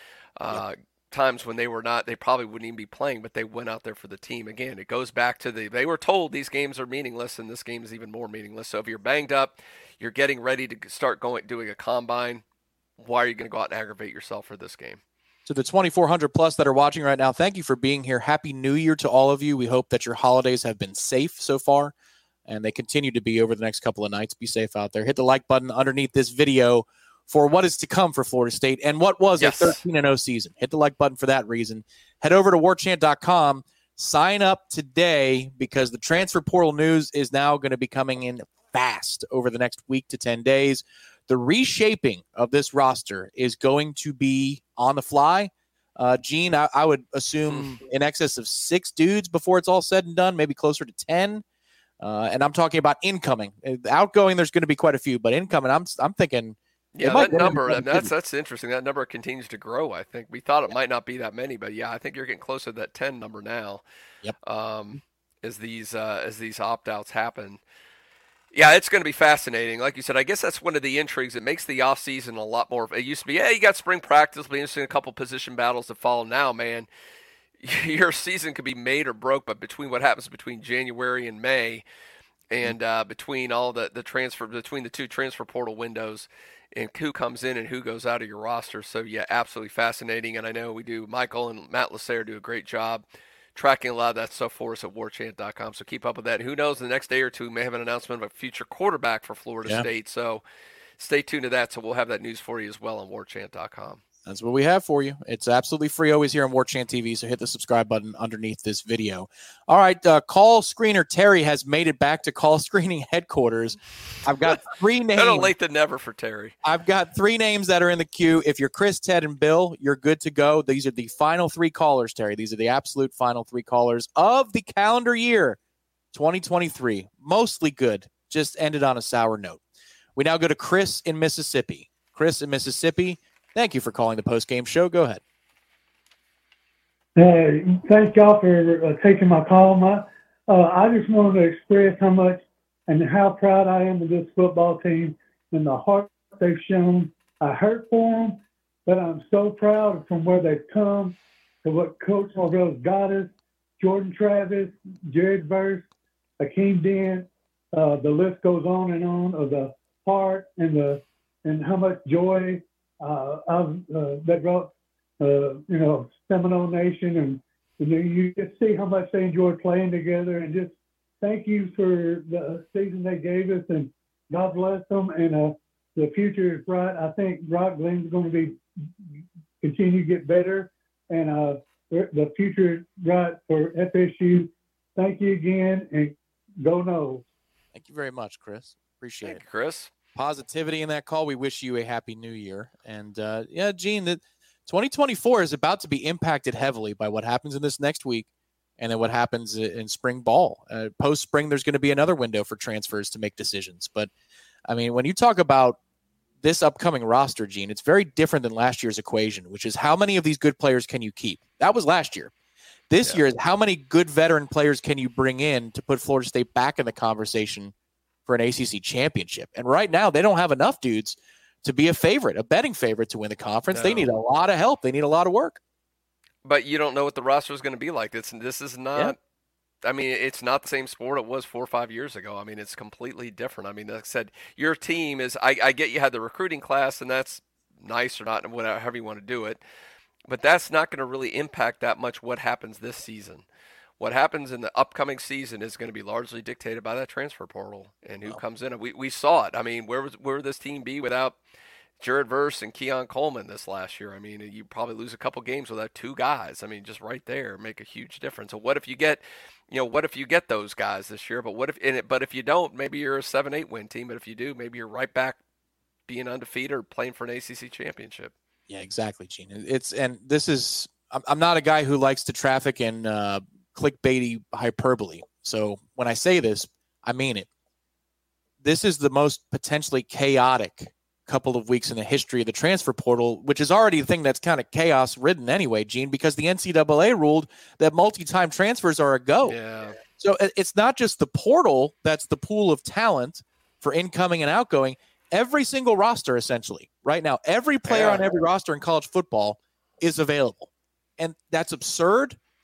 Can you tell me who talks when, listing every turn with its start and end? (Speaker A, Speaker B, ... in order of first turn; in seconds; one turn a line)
Speaker A: 0.4-12.4
Speaker A: 13.0-15.0
Speaker B: 15.4-21.9
Speaker B: 22.4-51.4
Speaker A: 29.4-29.8
Speaker A: 47.5-47.7
Speaker B: 52.0-58.1
Speaker A: 56.9-63.8
Speaker A: 64.4-67.6
Speaker A: 68.5-76.9
Speaker A: 77.6-81.8
Speaker A: 82.5-93.0
Speaker A: 93.5-100.4
Speaker A: 101.0-104.0
Speaker B: 104.2-115.5
Speaker A: 115.1-116.5
Speaker B: 116.6-125.6
Speaker B: 126.1-129.6
Speaker B: 130.2-135.2
Speaker C: 137.2-155.8
Speaker C: 156.4-178.6
Speaker C: 179.6-187.2
Speaker B: 187.7-189.4
Speaker A: 189.2-189.9
Speaker B: 190.1-198.3
Speaker B: 198.8-204.1
Speaker B: 204.7-205.8
Speaker B: 206.4-212.3
Speaker B: 212.9-217.7
Speaker B: 218.2-225.6
Speaker A: 223.7-224.1
Speaker A: 226.4-229.2
Speaker A: 229.8-239.6
Speaker A: 240.3-243.4
Speaker A: 244.0-251.4
Speaker A: 252.0-265.4
Speaker A: 266.1-268.3
Speaker B: 268.7-277.5
Speaker B: 278.6-289.6
Speaker A: 289.4-290.0
Speaker B: 290.1-302.4
Speaker A: 297.9-298.2